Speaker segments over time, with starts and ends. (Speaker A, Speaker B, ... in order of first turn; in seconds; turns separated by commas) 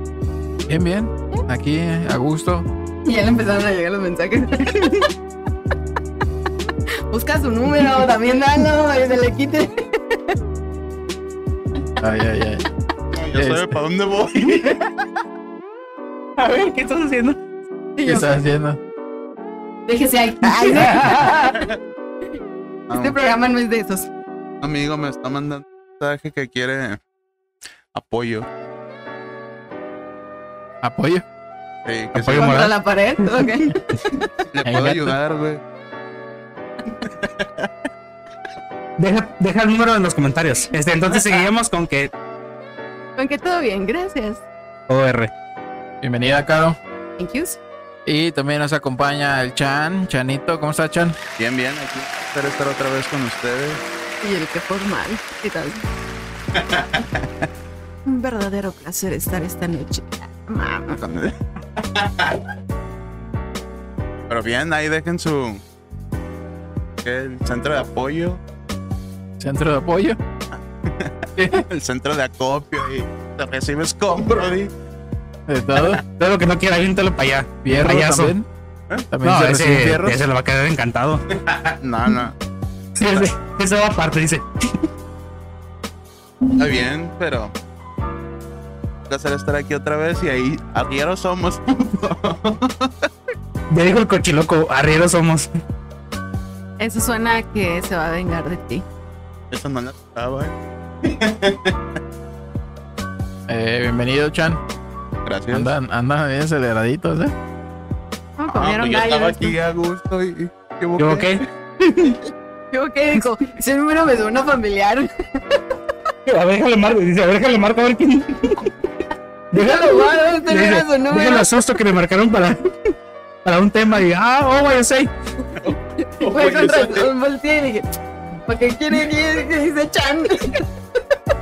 Speaker A: 0.7-2.7, Speaker B: 3.0-5.1, Speaker B: 7.1-10.3, Speaker A: 12.0-12.7, Speaker C: 13.1-14.8, Speaker A: 13.3-13.8, Speaker D: 16.4-17.4, Speaker B: 18.0-18.3, Speaker A: 18.0-18.8, Speaker B: 19.9-21.7, Speaker D: 20.6-21.6, Speaker C: 22.9-23.2, Speaker B: 22.9-24.1, Speaker C: 24.6-27.0, Speaker C: 27.9-28.5, Speaker A: 30.8-31.2, Speaker C: 31.8-32.5, Speaker D: 32.1-32.7, Speaker B: 32.3-34.3, Speaker C: 34.5-35.6, Speaker A: 34.6-35.1, Speaker C: 36.9-37.7, Speaker D: 39.0-42.1, Speaker B: 43.2-44.4, Speaker D: 44.9-45.3, Speaker A: 46.0-46.8, Speaker B: 47.2-47.6, Speaker A: 48.0-51.2, Speaker C: 51.4-53.8, Speaker B: 54.2-55.8, Speaker C: 56.5-57.5, Speaker B: 58.0-61.0, Speaker C: 61.0-62.4, Speaker C: 64.3-65.6, Speaker C: 67.0-68.4, Speaker A: 69.4-70.2, Speaker C: 70.8-74.7, Speaker A: 71.4-71.6, Speaker A: 75.5-76.0, Speaker D: 76.1-78.3, Speaker A: 77.6-78.5, Speaker A: 79.1-80.2, Speaker D: 79.2-81.7, Speaker C: 81.8-82.3, Speaker D: 83.0-84.9, Speaker C: 86.5-87.5, Speaker C: 89.1-93.1, Speaker D: 93.7-95.5, Speaker B: 96.8-98.8, Speaker C: 99.5-101.8, Speaker A: 103.5-104.6, Speaker C: 105.2-105.7, Speaker A: 105.5-107.3, Speaker B: 108.4-109.5, Speaker C: 108.5-111.4, Speaker D: 111.0-112.2, Speaker B: 112.7-115.6, Speaker D: 116.2-118.7, Speaker D: 119.5-122.7, Speaker B: 119.5-121.6, Speaker D: 123.4-125.1, Speaker C: 125.5-127.1, Speaker B: 126.0-127.9, Speaker B: 128.5-130.7